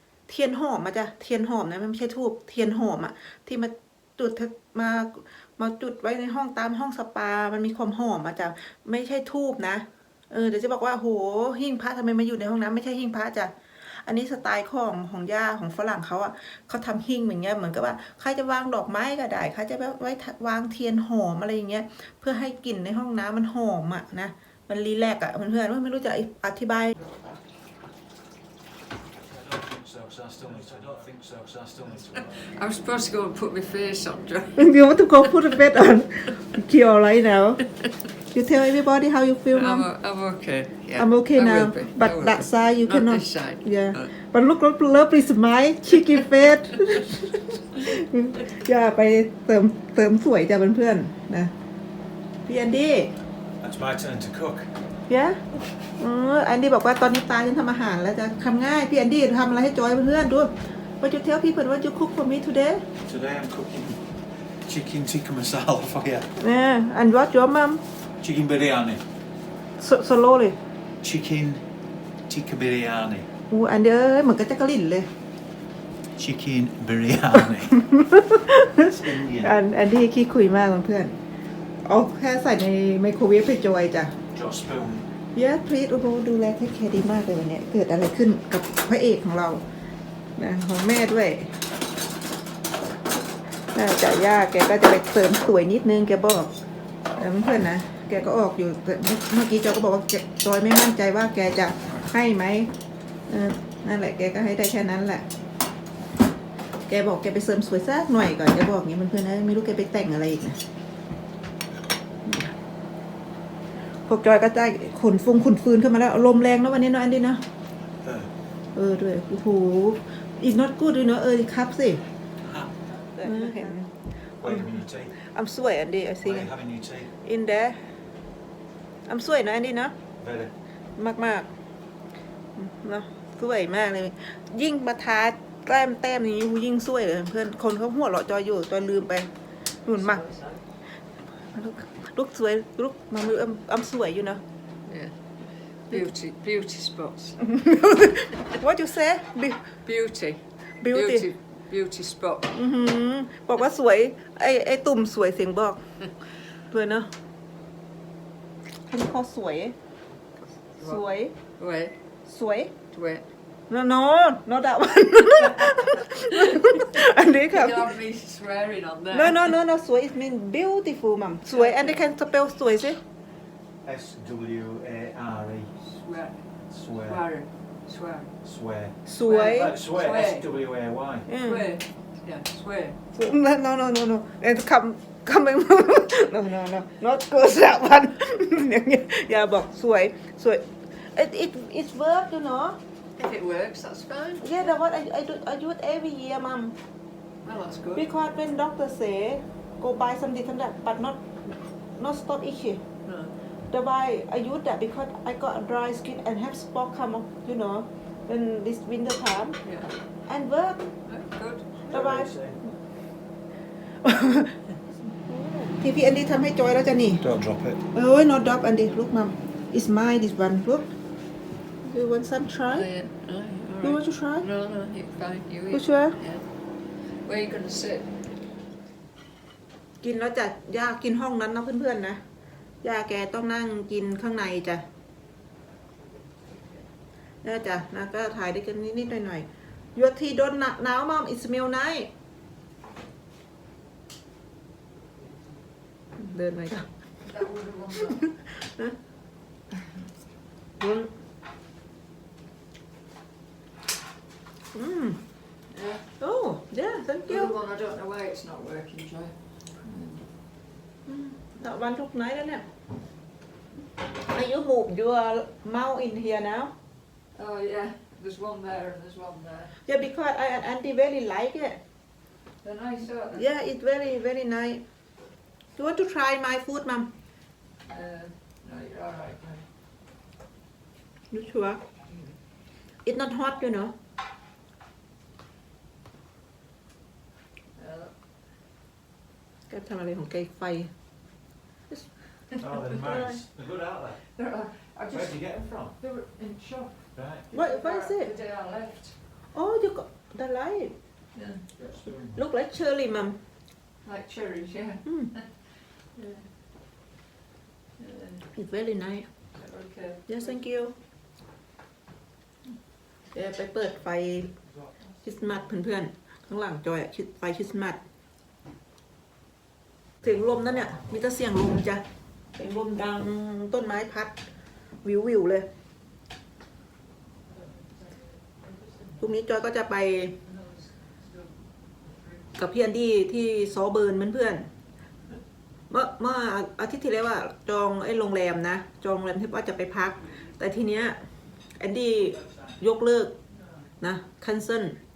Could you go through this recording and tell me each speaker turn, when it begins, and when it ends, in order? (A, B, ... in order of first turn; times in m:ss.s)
0:00.3-0:27.0 A
0:27.0-0:27.4 B
0:29.3-0:32.5 C
0:32.4-0:34.7 B
0:34.6-0:37.7 A
0:38.3-0:39.9 A
0:39.5-0:44.1 B
0:41.0-0:51.5 A
0:52.4-0:53.1 A
0:53.6-0:54.7 C
0:55.1-0:55.4 A
0:56.0-1:02.9 A
1:03.0-1:06.3 C
1:06.4-1:07.8 A
1:08.2-1:09.0 C
1:09.8-1:10.6 A
1:11.0-1:11.6 C
1:12.3-1:13.3 C
1:13.5-1:15.1 A
1:16.2-1:17.9 C
1:17.7-1:21.2 A
1:18.7-1:19.5 C
1:21.8-1:24.1 A
1:24.3-1:25.1 C
1:25.4-1:29.6 A
1:30.4-1:31.5 A
1:33.7-1:36.5 A
1:37.1-1:42.7 A
1:43.3-1:45.2 A
1:46.9-1:50.6 A
1:54.1-1:57.4 A
1:58.0-1:58.3 C
1:58.8-2:02.0 A
2:02.4-2:02.8 C
2:03.2-2:03.7 B
2:03.2-2:03.9 A
2:04.4-2:05.1 C
2:04.4-2:06.5 A
2:06.2-2:07.1 C
2:07.2-2:07.8 A
2:09.1-2:09.9 A
2:10.2-2:10.5 C
2:11.0-2:11.5 A
2:12.6-2:19.3 A
2:19.8-2:20.2 A
2:20.0-2:20.6 B
2:21.4-2:24.4 A
2:24.9-2:25.2 B
2:25.9-2:27.4 B
2:27.4-2:29.6 A
2:29.9-2:32.5 B
2:30.8-2:31.3 A
2:32.5-2:35.8 A
2:36.7-2:37.1 A
2:38.9-2:39.8 A
2:40.8-2:41.4 A
2:41.6-2:41.9 B
2:42.2-2:42.8 A
2:42.9-2:43.2 B
2:43.7-2:47.9 A
2:46.1-2:46.8 B
2:47.4-2:49.5 B
2:49.1-2:53.0 A
2:51.5-2:52.0 B
2:53.8-2:55.7 C
2:55.8-2:56.5 B
2:56.6-2:57.2 C
2:57.0-2:58.3 B
2:58.4-3:01.3 C
2:59.0-2:59.7 A
2:59.2-3:00.5 B
3:01.3-3:01.7 A
3:01.4-3:03.0 B
3:03.1-3:12.8 A
3:13.2-3:14.4 B
3:14.4-3:16.8 A
3:17.4-3:18.0 B
3:17.9-3:21.2 A
3:22.0-3:22.8 A
3:23.1-3:23.3 B
3:23.7-3:29.6 A
3:29.6-3:29.9 B
3:30.3-3:30.8 A
3:31.1-3:31.7 B
3:31.9-3:32.7 A
3:31.9-3:32.6 C
3:34.0-3:34.6 A
3:35.1-3:37.2 A
3:37.2-3:37.8 C
3:37.9-3:40.9 A
3:41.8-3:42.9 A
3:42.7-3:46.4 B
3:43.8-3:44.5 A
3:45.7-3:46.2 A
3:47.1-3:48.1 B
3:50.0-3:52.2 A
3:52.8-3:54.8 A
3:57.4-4:02.1 A
4:06.2-4:06.9 A
4:07.2-4:08.3 B
4:08.0-4:09.0 A
4:10.8-4:11.1 A
4:14.7-4:15.2 A
4:15.7-4:16.1 B
4:16.2-4:17.5 A
4:17.2-4:20.3 B
4:21.1-4:22.6 A
4:24.2-4:26.7 A
4:27.3-4:29.8 B
4:29.8-4:31.8 A
4:32.6-4:33.4 B
4:33.3-4:34.8 A
4:35.8-4:37.1 A
4:37.9-4:39.6 B
4:41.3-4:41.8 A
4:43.0-4:43.9 A
4:47.8-4:48.1 B
4:49.7-4:50.9 A
4:52.6-4:53.4 B
4:52.6-4:54.2 C
4:54.4-4:59.2 B
4:55.1-4:55.9 C
4:57.1-4:57.5 C
4:57.5-4:58.3 A
4:59.5-5:00.9 A
5:01.3-5:01.7 B
5:01.8-5:02.4 C
5:02.3-5:03.4 A
5:04.0-5:05.6 B
5:05.1-5:05.3 A
5:06.2-5:06.4 B
5:08.0-5:08.4 B
5:08.5-5:09.3 A
5:09.5-5:10.3 B
5:10.3-5:10.9 A
5:13.3-5:14.5 A
5:15.2-5:18.0 A
5:20.2-5:22.0 A
5:20.3-5:21.1 C
5:22.6-5:24.4 A
5:25.0-5:25.7 A
5:29.2-5:30.4 A
5:30.4-5:31.2 B
5:32.6-5:34.7 A
5:35.9-5:41.2 A
5:41.8-5:43.3 A
5:44.0-5:45.0 A